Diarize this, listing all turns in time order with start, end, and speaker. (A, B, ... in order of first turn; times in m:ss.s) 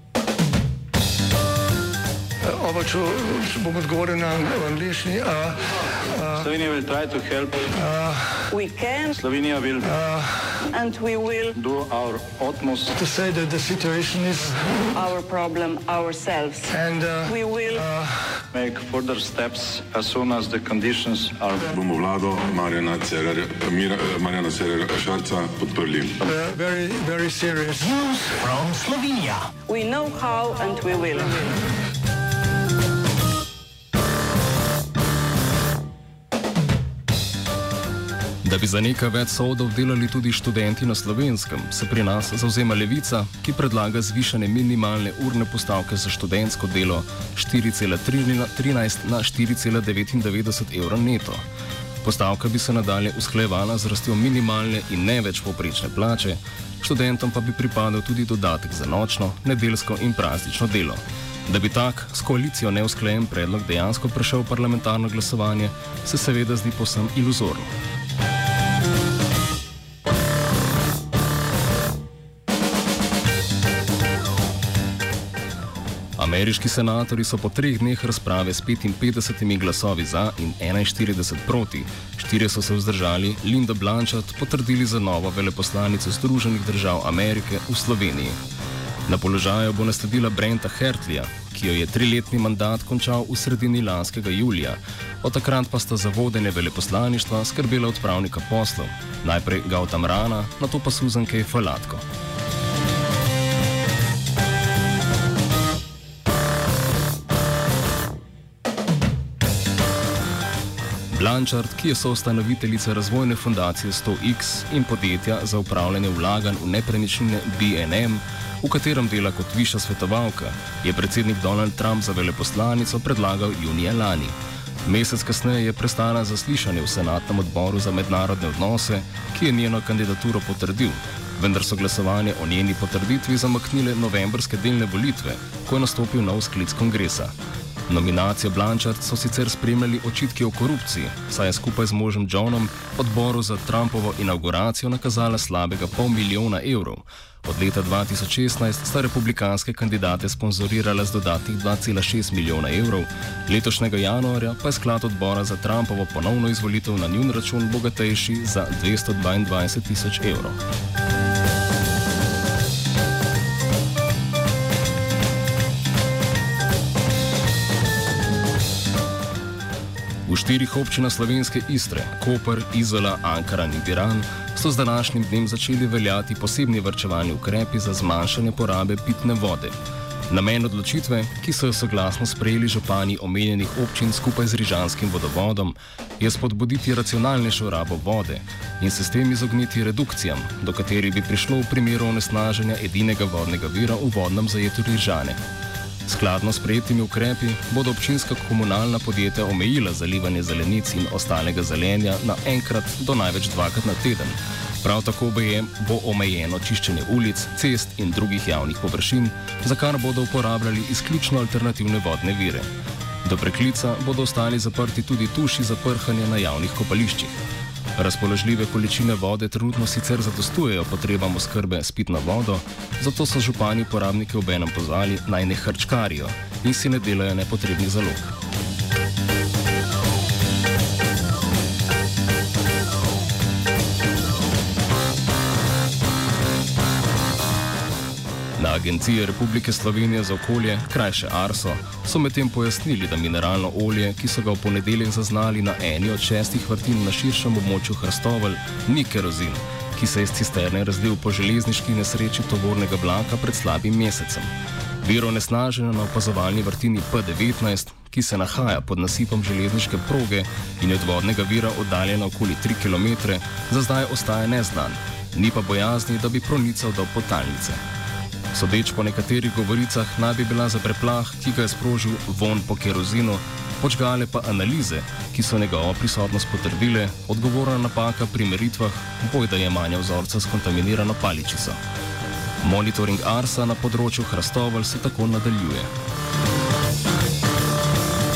0:02.4-0:06.4 A
0:06.4-0:07.8 B
0:07.8-0:08.5 A
0:08.5-0:09.1 C
0:09.1-0:09.9 B
0:09.9-0:10.7 A
0:10.7-0:11.5 C
0:11.5-0:13.0 B
0:13.0-0:15.0 A
0:15.0-0:16.7 C
0:16.7-0:18.4 A
0:18.5-0:21.7 B
0:21.6-0:26.2 D
0:26.3-0:29.4 A
0:29.7-0:31.4 C
0:38.4-0:51.4 E
0:52.0-1:07.7 E
1:16.2-1:28.4 E
1:29.1-1:42.0 E
1:51.1-2:17.3 E
2:17.9-2:40.6 E
2:50.3-2:59.8 E
3:00.3-3:15.4 E
3:16.0-3:32.7 E
3:33.2-3:37.4 E
3:38.0-3:48.4 E
3:58.6-4:27.8 E
4:28.5-4:41.8 E
4:42.6-4:45.9 E